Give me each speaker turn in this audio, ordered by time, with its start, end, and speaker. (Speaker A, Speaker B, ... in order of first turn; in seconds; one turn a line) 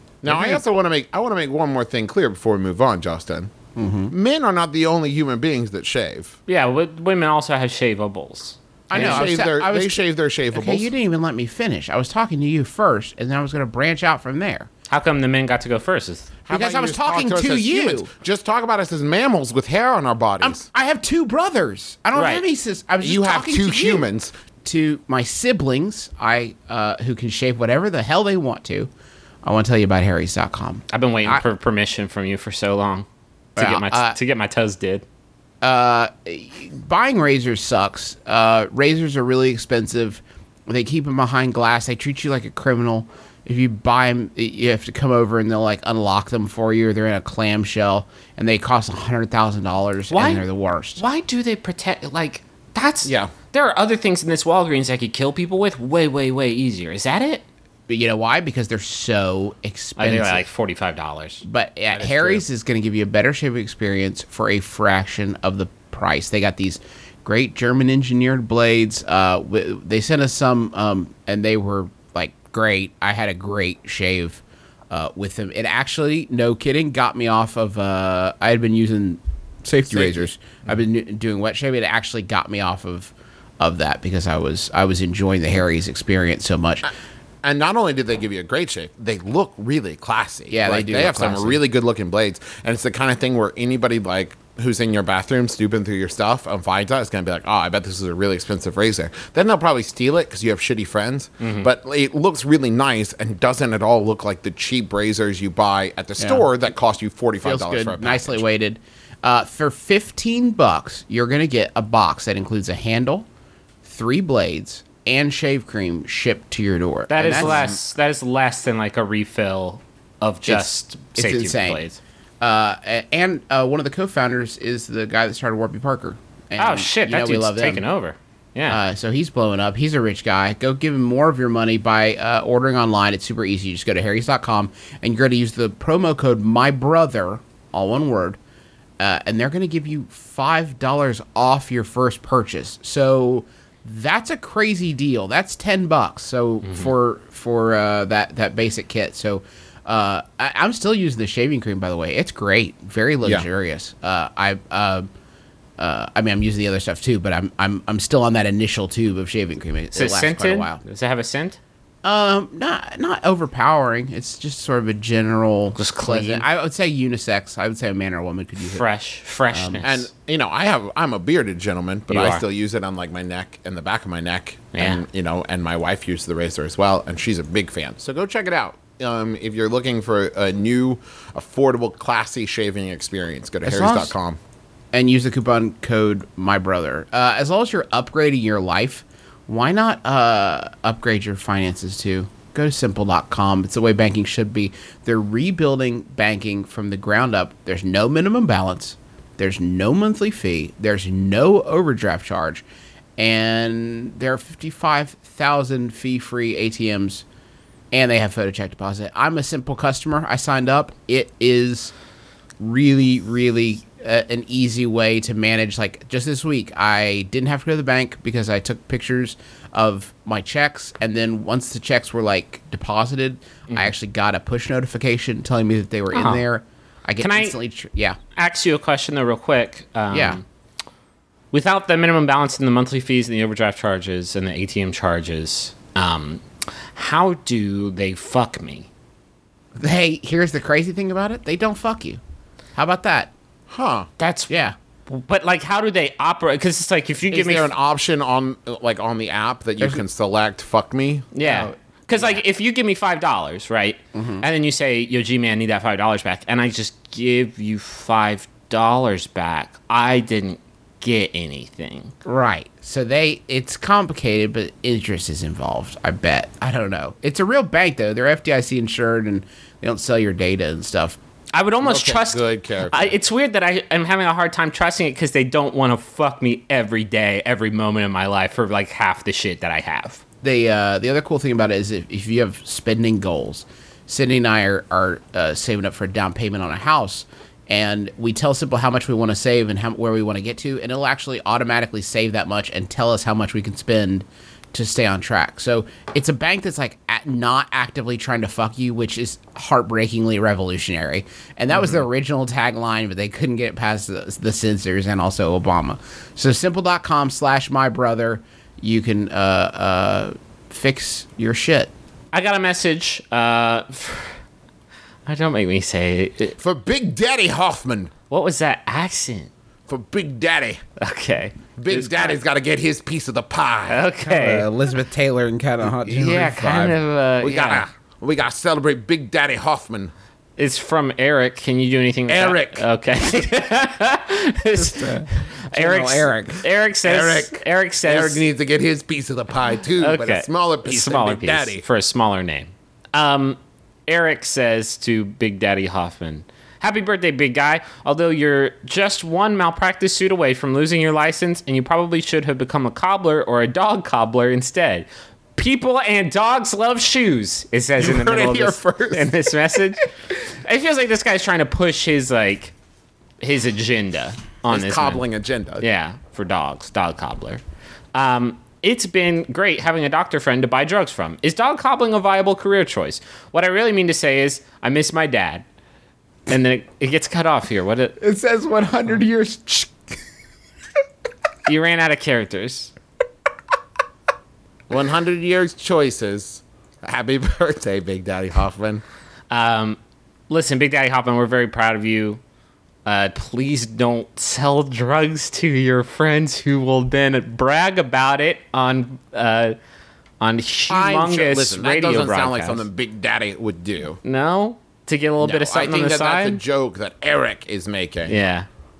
Speaker A: 0.2-3.5
Speaker B: 0.2-0.6
Speaker B: 3.8-4.1
Speaker A: 4.1-6.4
Speaker C: 6.5-9.2
Speaker A: 8.9-10.9
Speaker B: 8.9-14.7
Speaker C: 14.9-16.3
Speaker A: 16.4-20.7
Speaker B: 16.5-18.1
Speaker B: 20.4-24.1
Speaker C: 22.1-22.4
Speaker A: 23.0-24.3
Speaker B: 24.6-28.9
Speaker B: 29.4-31.4
Speaker C: 30.9-33.0
Speaker B: 33.5-34.2
Speaker C: 33.6-35.0
Speaker B: 35.6-51.0
Speaker C: 50.1-50.4
Speaker C: 51.0-57.4
Speaker A: 53.0-53.3
Speaker B: 57.9-60.4
Speaker C: 60.0-61.4
Speaker B: 61.4-86.9
Speaker A: 61.9-62.4
Speaker A: 79.9-80.3
Speaker A: 87.4-108.4
Speaker B: 90.5-91.6
Speaker C: 101.4-101.7
Speaker B: 106.2-106.5
Speaker B: 107.4-113.2
Speaker B: 113.8-117.7
Speaker C: 117.1-122.0
Speaker A: 117.2-117.8
Speaker B: 120.5-121.8
Speaker B: 122.4-127.8
Speaker C: 126.6-128.8
Speaker B: 128.7-138.4
Speaker B: 139.0-155.1
Speaker B: 155.8-160.8
Speaker C: 159.9-161.6
Speaker B: 162.0-168.8
Speaker C: 165.8-166.5
Speaker C: 168.6-170.1
Speaker B: 169.5-169.8
Speaker A: 169.8-184.4
Speaker C: 172.1-172.4
Speaker C: 174.7-175.0
Speaker B: 183.6-184.1
Speaker B: 184.9-202.6
Speaker B: 203.2-207.2
Speaker B: 207.9-211.9
Speaker B: 212.6-228.2
Speaker C: 226.1-226.4
Speaker C: 227.2-227.6
Speaker C: 228.3-230.4
Speaker B: 230.1-230.4
Speaker C: 231.5-238.9
Speaker B: 239.8-242.2
Speaker B: 242.8-243.3
Speaker A: 243.7-244.1
Speaker C: 244.2-244.5
Speaker B: 244.5-244.7
Speaker C: 245.1-247.7
Speaker A: 247.3-251.3
Speaker C: 251.3-262.1
Speaker B: 251.4-251.7
Speaker B: 254.1-254.4
Speaker B: 262.2-271.2
Speaker C: 271.5-280.2
Speaker A: 271.8-273.1
Speaker B: 280.4-311.9
Speaker C: 312.3-314.4
Speaker C: 315.2-316.6
Speaker A: 316.6-318.1
Speaker C: 318.3-319.5
Speaker A: 319.9-320.8
Speaker C: 321.0-322.4
Speaker A: 321.8-324.0
Speaker C: 323.9-324.6
Speaker B: 324.2-327.0
Speaker C: 326.1-327.9
Speaker A: 327.4-330.1
Speaker C: 330.6-338.4
Speaker A: 332.3-332.8
Speaker B: 334.7-336.6
Speaker A: 337.0-341.8
Speaker C: 340.0-355.1
Speaker C: 355.6-362.7
Speaker A: 358.0-359.4
Speaker C: 363.4-365.2
Speaker A: 364.7-365.8
Speaker C: 365.8-367.6
Speaker C: 368.1-375.6
Speaker C: 376.5-378.2
Speaker B: 378.2-380.0
Speaker C: 381.6-382.9
Speaker A: 384.9-389.0
Speaker C: 389.5-390.0
Speaker C: 390.5-392.4
Speaker C: 393.1-399.8
Speaker C: 400.4-402.8
Speaker A: 400.9-404.2
Speaker C: 404.2-406.6
Speaker A: 405.4-408.4
Speaker C: 408.3-408.7